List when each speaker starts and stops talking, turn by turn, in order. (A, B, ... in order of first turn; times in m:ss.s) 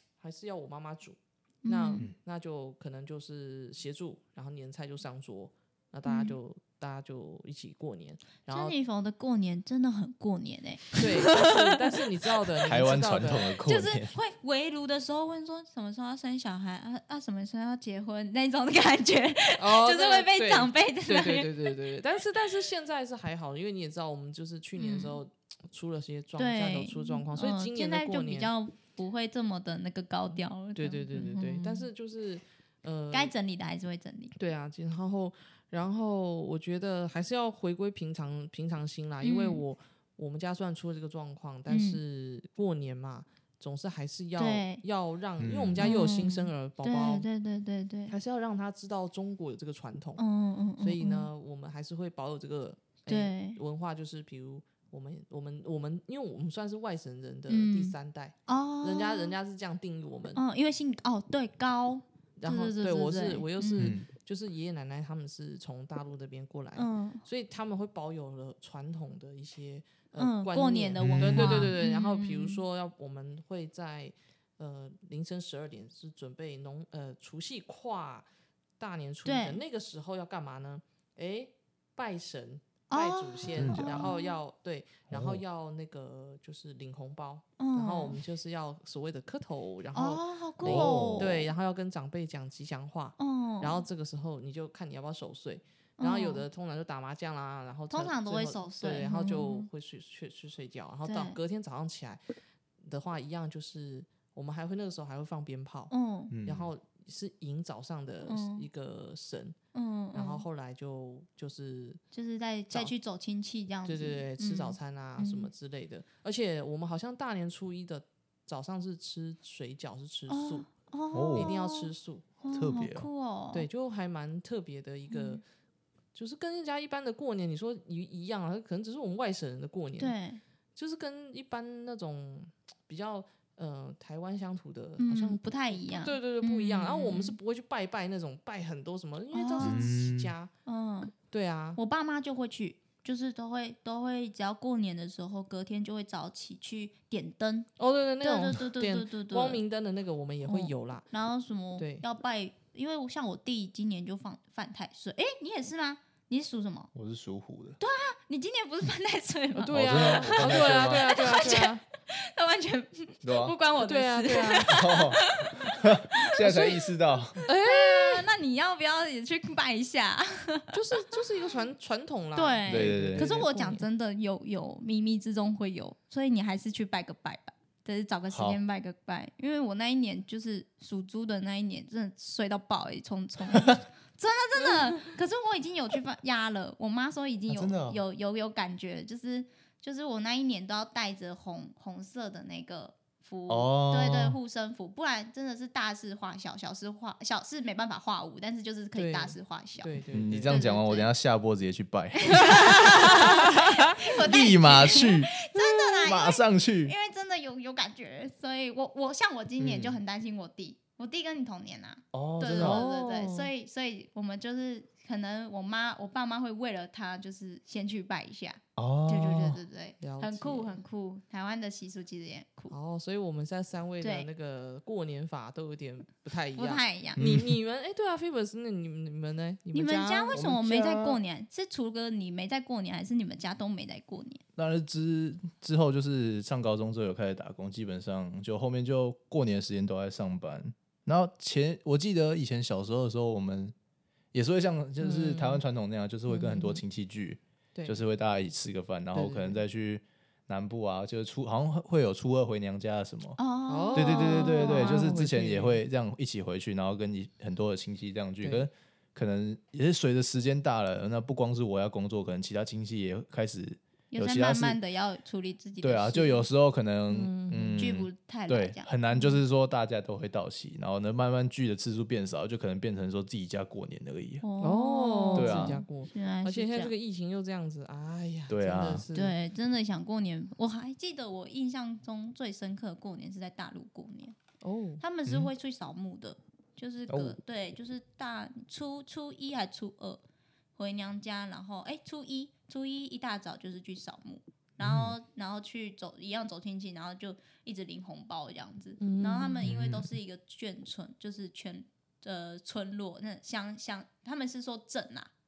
0:00.2-0:08.8 A
0:01.6-0:02.1 B
0:06.1-0:06.4 B
0:08.5-0:11.8 B
0:11.0-0:13.5 A
0:12.6-0:14.1 C
0:13.6-0:21.7 B
0:19.6-0:28.5 A
0:24.8-0:25.2 B
0:26.4-0:31.9 B
0:30.8-0:33.3 A
0:33.1-0:34.4 B
0:34.4-0:47.3 A
0:39.2-0:39.6 B
0:41.7-0:42.0 B
0:44.4-0:44.8 B
0:45.4-0:45.9 C
0:45.8-0:48.2 B
0:48.1-0:50.2 A
0:50.2-0:51.3 B
0:50.8-1:00.4 A
0:53.1-0:53.6 B
0:57.5-0:58.0 B
0:58.5-0:59.4 B
1:00.4-1:03.9 B
1:02.4-1:18.3 A
1:03.8-1:04.1 C
1:06.8-1:07.2 B
1:10.2-1:12.6 B
1:11.0-1:11.7 C
1:18.8-1:42.2 A
1:19.2-1:19.6 B
1:22.9-1:24.4 B
1:23.6-1:24.1 C
1:25.1-1:25.4 C
1:27.6-1:28.2 B
1:30.0-1:31.5 B
1:30.6-1:31.3 C
1:33.2-1:33.8 B
1:36.0-1:36.4 B
1:37.9-1:39.7 B
1:41.1-1:41.4 B
1:42.8-1:45.9 A
1:45.9-1:46.3 B
1:46.3-1:46.7 C
1:46.4-1:49.6 A
1:48.3-1:48.7 B
1:49.7-1:50.4 B
1:50.1-1:52.0 A
1:52.1-1:55.5 B
1:53.9-2:00.7 A
2:00.3-2:01.9 B
2:01.1-2:01.5 C
2:01.4-2:02.2 A
2:02.4-2:03.7 B
2:02.5-2:03.1 C
2:03.5-2:05.4 A
2:05.1-2:05.4 B
2:06.2-2:10.2 A
2:10.0-2:10.4 B
2:10.8-2:20.5 A
2:15.0-2:17.4 B
2:19.3-2:19.9 B
2:19.6-2:20.3 C
2:20.7-2:21.1 B
2:21.3-2:21.8 A
2:21.8-2:27.7 B
2:27.8-2:31.1 A
2:28.2-2:29.6 B
2:30.5-2:36.9 B
2:31.8-2:32.0 A
2:36.9-2:37.8 C
2:37.8-2:46.8 B
2:39.6-2:41.8 A
2:39.7-2:41.1 C
2:43.2-2:43.6 C
2:43.8-2:44.7 A
2:44.7-2:47.4 C
2:47.5-2:48.3 A
2:47.6-2:51.2 B
2:50.7-2:53.8 A
2:52.4-3:21.1 B
2:52.7-2:53.3 C
2:58.3-2:58.6 C
3:07.5-3:08.0 C
3:13.5-3:14.4 C
3:19.0-3:20.6 A
3:20.1-3:23.4 C
3:22.2-3:42.7 B
3:23.2-3:23.6 A
3:24.0-3:26.9 C
3:29.6-3:30.0 C
3:32.1-3:32.8 C
3:32.5-3:33.5 A
3:38.8-3:39.6 C
3:40.0-3:40.8 A
3:42.7-3:50.4 A
3:44.0-3:44.3 B
3:46.6-3:47.2 B
3:47.2-3:47.6 C
3:49.7-3:54.4 B
3:50.3-3:51.2 C
3:54.6-4:03.7 C
4:04.3-4:13.4 C
4:05.0-4:05.6 A
4:06.3-4:06.8 A
4:07.8-4:08.0 A
4:09.1-4:09.6 A
4:13.4-4:15.1 B
4:13.7-4:15.8 A
4:13.9-4:24.8 C
4:18.4-4:18.7 A
4:24.1-4:26.5 B
4:25.8-4:34.4 C
4:27.1-4:27.8 A
4:27.8-4:29.4 B
4:34.4-4:36.9 B
4:34.6-4:39.4 A
4:35.4-4:35.8 C
4:38.5-4:39.0 C
4:39.1-4:44.4 B
4:44.6-4:45.0 A
4:45.0-4:50.2 B
4:45.3-4:45.5 C
4:47.1-4:47.4 C
4:50.8-5:05.3 B
4:54.8-4:55.1 C
4:59.0-4:59.6 A
4:59.6-5:00.1 C